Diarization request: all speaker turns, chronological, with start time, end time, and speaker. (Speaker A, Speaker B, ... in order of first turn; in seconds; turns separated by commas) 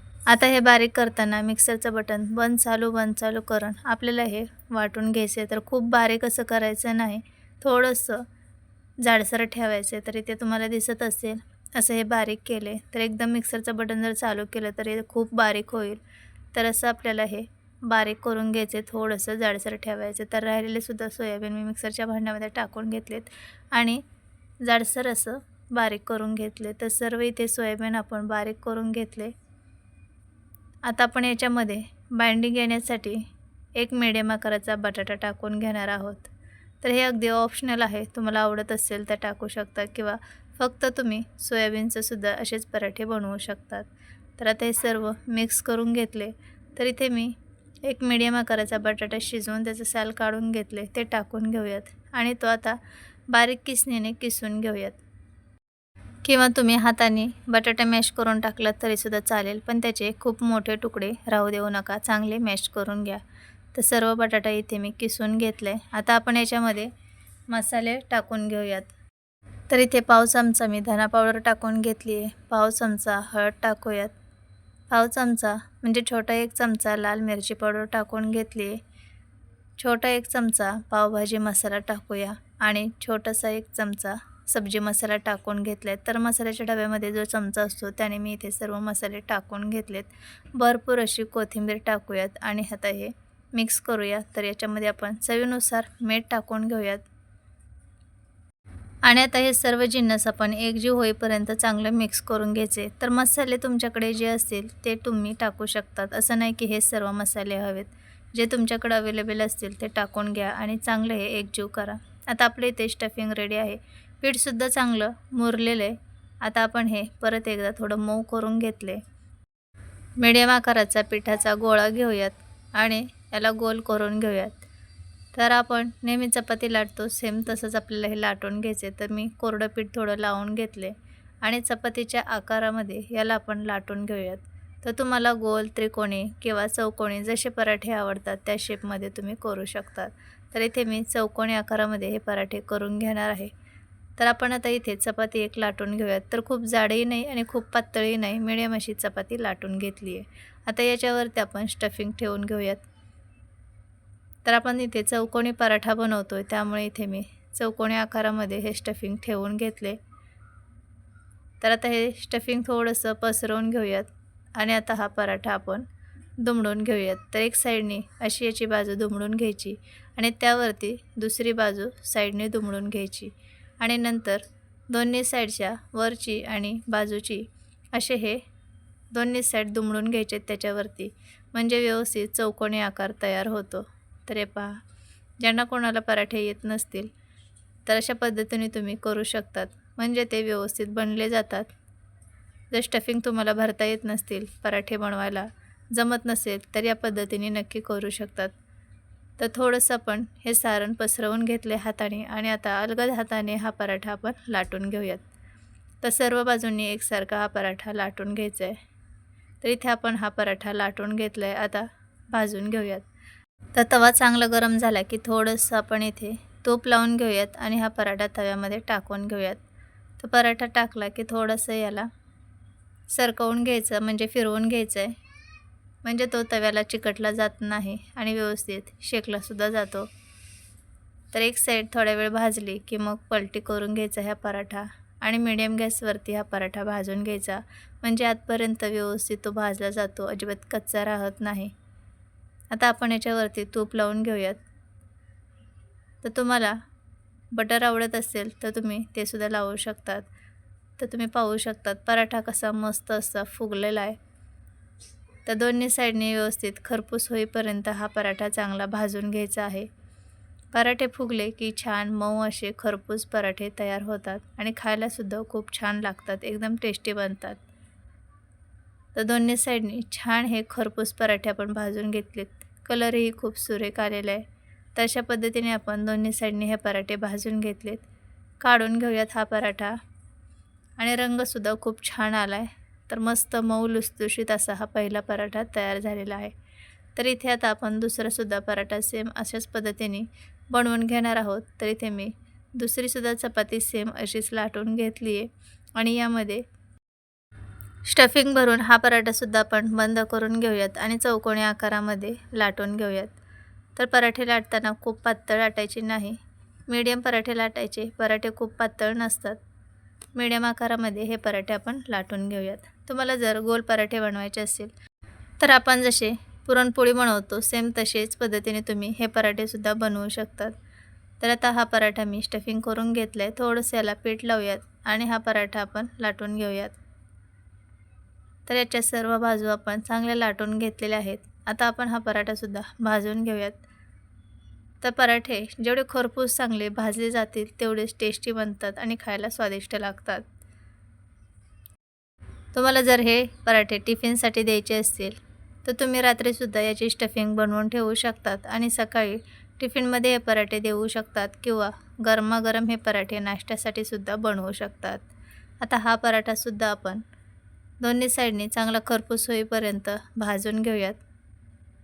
Speaker A: 0.3-8.2, Speaker A: 9.0-16.0, Speaker A: 16.5-24.0, Speaker A: 24.6-29.3, Speaker A: 30.8-52.8, Speaker A: 53.3-55.0, Speaker A: 56.2-63.2, Speaker A: 63.7-66.9, Speaker A: 67.5-68.9, Speaker A: 69.7-74.1, Speaker A: 74.9-78.8, Speaker A: 79.8-97.0, Speaker A: 99.0-119.0, Speaker A: 120.2-124.6, Speaker A: 125.3-143.5, Speaker A: 144.2-152.8, Speaker A: 154.4-160.0, Speaker A: 161.6-165.8, Speaker A: 166.4-178.4, Speaker A: 179.1-184.8, Speaker A: 185.4-187.1, Speaker A: 187.8-191.7, Speaker A: 192.7-198.5, Speaker A: 199.4-205.2, Speaker A: 206.0-208.8, Speaker A: 209.6-213.1, Speaker A: 213.7-219.6, Speaker A: 220.2-222.1, Speaker A: 223.1-225.2, Speaker A: 226.0-230.1, Speaker A: 231.3-241.7, Speaker A: 242.7-244.6, Speaker A: 246.2-246.8, Speaker A: 247.5-250.3, Speaker A: 251.0-254.2, Speaker A: 255.4-259.9, Speaker A: 260.7-267.6, Speaker A: 269.1-278.1, Speaker A: 278.6-280.0, Speaker A: 281.0-286.5, Speaker A: 287.1-296.6, Speaker A: 298.0-303.4, Speaker A: 303.9-309.6, Speaker A: 310.3-314.9, Speaker A: 315.6-320.7, Speaker A: 321.4-327.0, Speaker A: 328.7-333.8, Speaker A: 335.0-340.5, Speaker A: 342.7-355.2, Speaker A: 355.8-357.2, Speaker A: 358.0-361.2